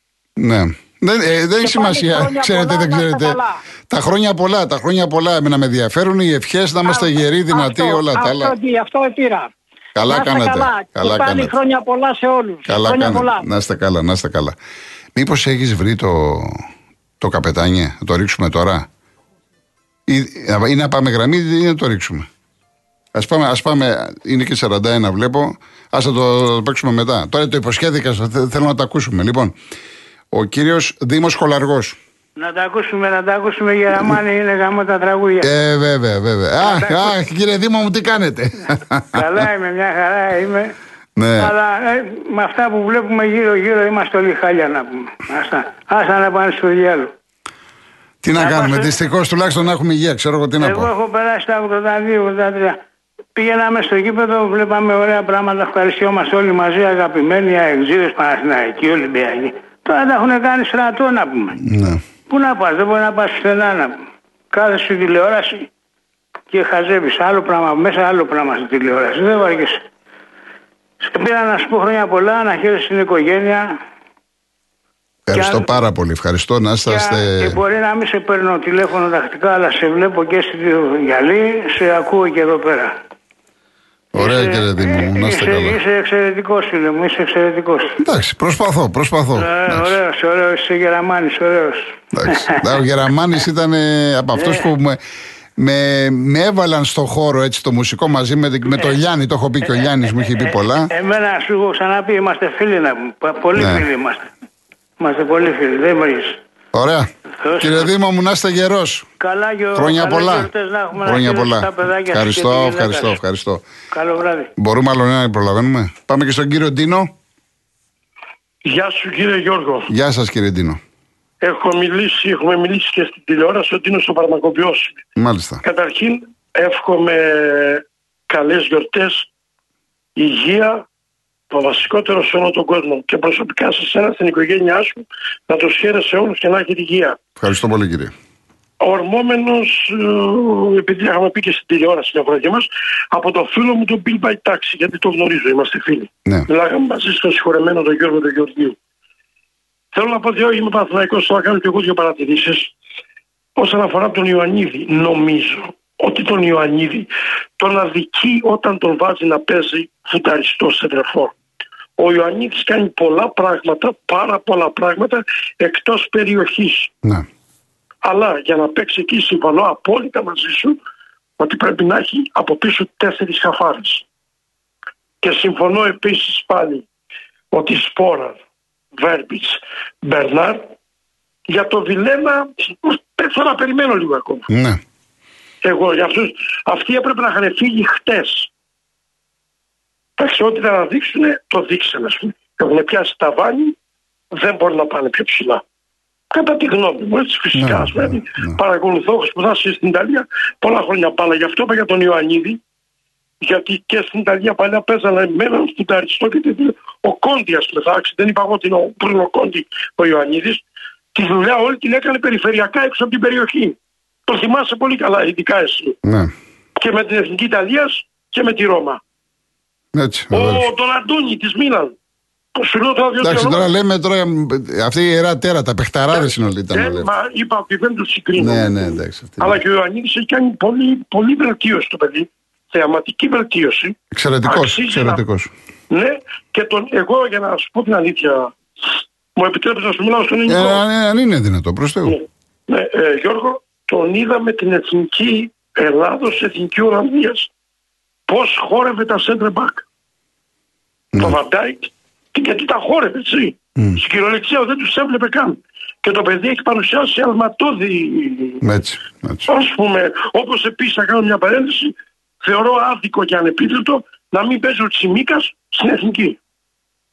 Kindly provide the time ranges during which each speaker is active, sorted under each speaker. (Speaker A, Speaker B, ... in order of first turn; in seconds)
Speaker A: 0.4-3.4, 3.9-8.5, 9.9-11.5, 12.7-14.5, 15.2-16.6, 17.2-18.9, 20.1-22.3, 23.1-29.6, 30.3-32.0, 35.4-39.4, 41.1-41.5, 48.2-50.9, 61.6-62.0, 75.2-77.6, 84.1-85.8, 88.0-89.9, 92.1-95.0, 95.6-100.9, 103.5-103.8, 106.7-109.1, 109.7-110.5, 111.0-113.6, 114.6-117.1, 119.9-120.8, 125.2-125.6, 137.4-138.1, 184.5-184.8, 197.6-198.6, 216.0-216.3, 219.9-220.7, 223.2-227.1, 228.4-229.6, 234.1-235.5, 240.5-242.2, 258.6-259.5
Speaker B: 1.6-3.6, 6.8-9.5, 10.1-13.4
Speaker C: 32.4-35.5, 36.6-37.1, 39.1-40.7, 41.4-47.1, 48.4-48.9, 50.6-52.8, 53.4-61.6, 62.3-65.7, 66.5-69.8, 71.0-73.7, 75.3-75.7, 76.8-82.9, 84.2-88.0, 89.3-92.6, 94.4-94.6, 100.2-104.3, 105.0-106.4, 107.4-107.9, 109.2-113.2, 113.9-114.5
Speaker D: 118.6-119.9, 121.4-125.0, 125.6-129.3, 130.2-130.8, 131.5-137.2, 138.8-148.8, 149.9-152.7, 153.6-161.3, 162.0-166.9, 168.0-170.8, 171.4-174.0, 175.2-176.8, 177.5-178.4, 178.9-180.7, 181.5-184.5, 185.6-188.5, 190.2-193.7, 194.3-195.6, 196.3-202.6, 203.4-210.6, 211.1-216.0, 216.8-219.0, 220.3-221.9, 222.6-223.7, 226.1-235.2, 235.9-238.5, 239.3-240.8, 242.0-247.5, 248.3-249.8, 251.1-258.6, 259.5-266.4